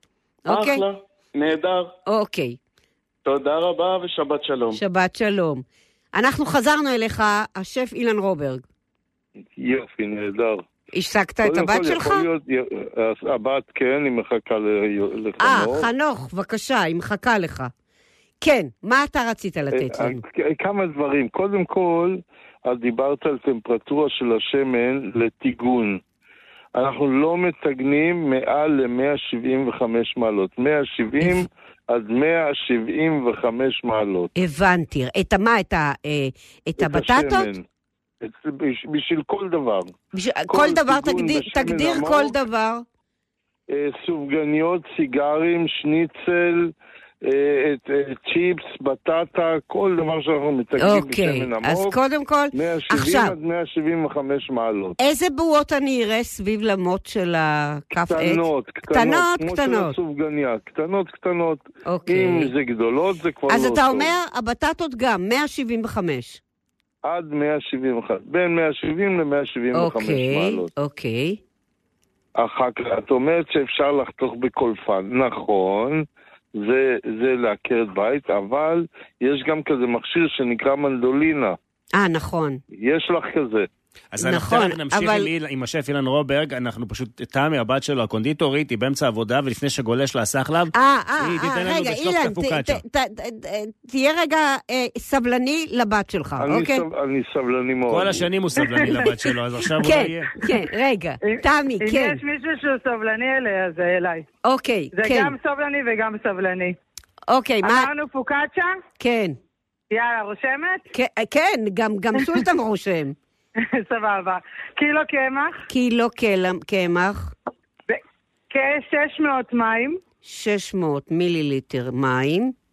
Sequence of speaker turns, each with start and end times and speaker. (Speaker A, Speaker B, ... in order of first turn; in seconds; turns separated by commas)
Speaker A: 0.5-0.8, Speaker B: 0.5-1.9, Speaker A: 2.1-2.6, Speaker B: 3.2-4.8, Speaker A: 4.7-8.6, Speaker C: 9.5-10.7, Speaker A: 10.9-12.3, Speaker C: 11.4-15.9, Speaker A: 15.4-17.7, Speaker A: 18.4-20.2, Speaker C: 19.7-26.0, Speaker C: 26.8-34.3, Speaker A: 31.2-31.5, Speaker A: 34.4-37.5, Speaker C: 36.8-37.6, Speaker C: 38.2-39.9, Speaker A: 40.1-42.9, Speaker C: 40.5-42.4, Speaker C: 43.7-52.0, Speaker A: 50.8-53.4, Speaker C: 52.5-55.0, Speaker A: 55.0-60.0, Speaker C: 57.9-64.1, Speaker A: 61.9-62.5, Speaker A: 63.5-66.4, Speaker C: 67.0-70.7, Speaker A: 69.7-71.4, Speaker C: 72.4-76.0, Speaker C: 76.6-81.6, Speaker A: 82.0-82.6, Speaker C: 82.7-83.7, Speaker D: 84.1-92.8, Speaker A: 84.2-85.3, Speaker A: 90.8-96.9, Speaker C: 96.4-98.3, Speaker D: 97.9-100.3, Speaker E: 98.6-99.1, Speaker A: 99.8-102.2, Speaker E: 101.2-104.2, Speaker A: 104.4-105.3, Speaker E: 105.0-106.8, Speaker A: 107.3-107.9, Speaker E: 107.6-108.8, Speaker A: 109.0-109.4, Speaker E: 109.9-110.8, Speaker A: 110.9-113.2, Speaker E: 113.8-115.6, Speaker A: 115.7-117.3, Speaker E: 117.9-120.0, Speaker A: 120.2-122.5